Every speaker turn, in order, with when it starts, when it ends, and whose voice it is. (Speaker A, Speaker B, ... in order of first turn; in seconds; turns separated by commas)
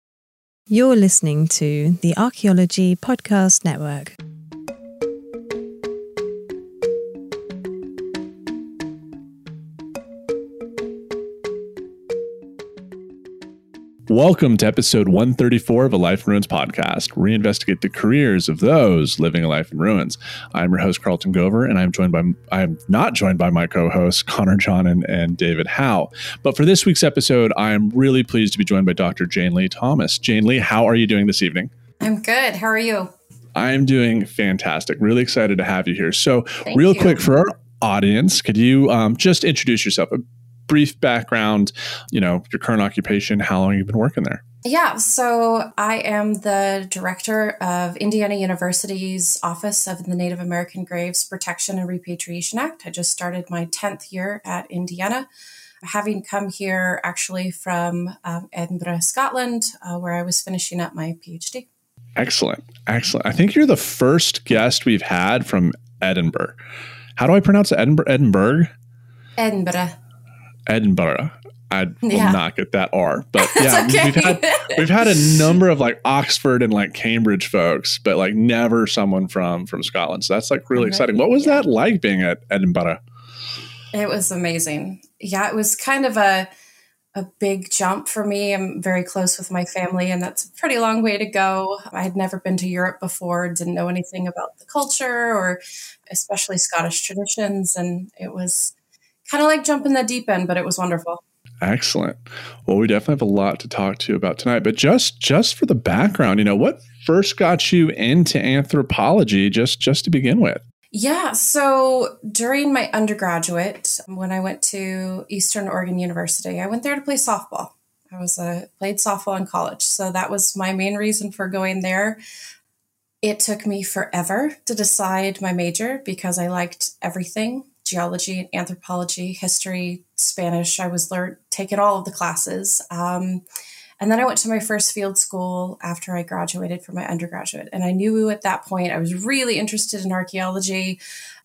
Speaker A: 0.7-4.1, Speaker B: 14.1-31.7, Speaker C: 32.0-33.1, Speaker B: 33.5-44.4, Speaker C: 36.7-37.2, Speaker C: 44.6-55.3, Speaker C: 55.8-61.7, Speaker B: 62.2-66.6, Speaker B: 67.2-68.7, Speaker C: 69.4-70.0, Speaker B: 70.7-83.0, Speaker C: 72.0-72.4, Speaker C: 73.4-75.6, Speaker C: 80.8-81.7, Speaker C: 83.9-86.5, Speaker C: 87.1-98.7, Speaker C: 99.3-101.2, Speaker B: 101.6-110.6, Speaker C: 110.9-122.2, Speaker C: 123.2-133.4, Speaker C: 134.0-141.0